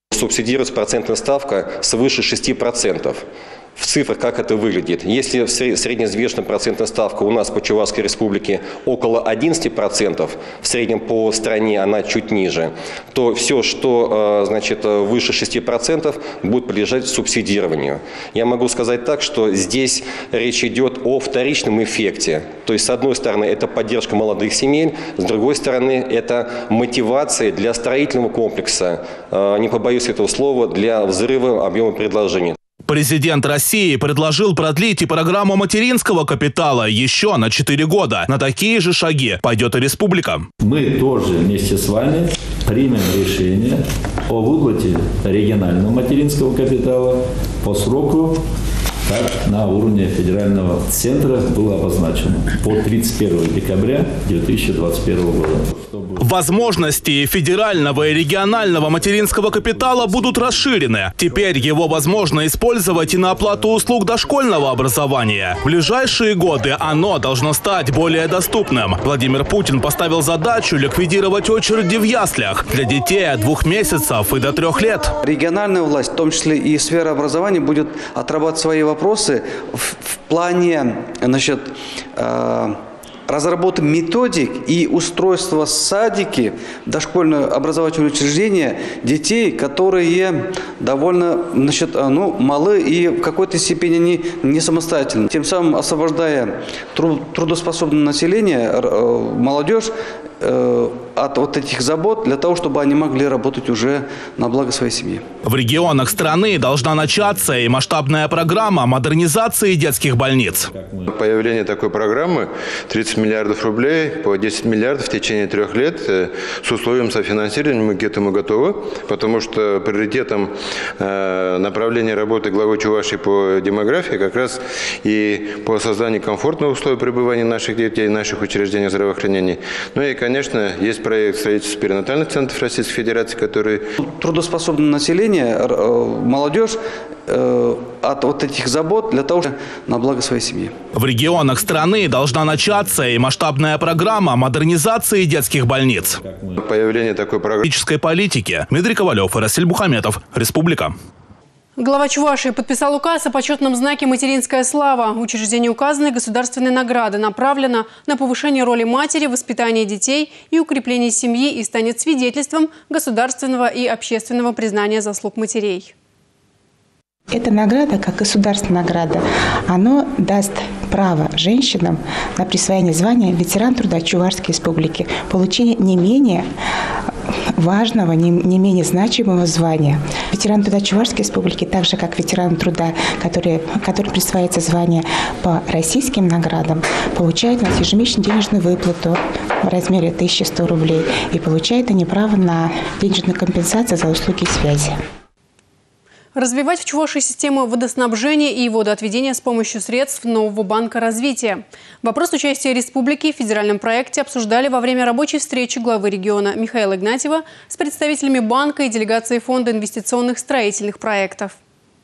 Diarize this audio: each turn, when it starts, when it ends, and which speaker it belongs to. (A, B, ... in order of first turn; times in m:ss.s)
0:00.1-0:03.2 A
0:03.8-0:32.6 A
0:32.9-0:40.5 B
0:40.6-0:48.4 C
0:49.1-0:56.2 C
0:56.2-1:15.1 B
1:15.2-1:22.8 D
1:23.3-1:39.9 D
1:40.4-1:45.2 D
1:45.5-1:50.7 B
1:51.1-2:13.8 E
2:14.0-2:20.7 D
2:21.0-2:26.2 B
2:26.6-2:27.7 E
2:27.6-2:31.0 B
2:31.8-2:45.9 F
2:47.3-2:56.4 G
2:57.6-3:14.9 G
3:16.4-3:31.6 F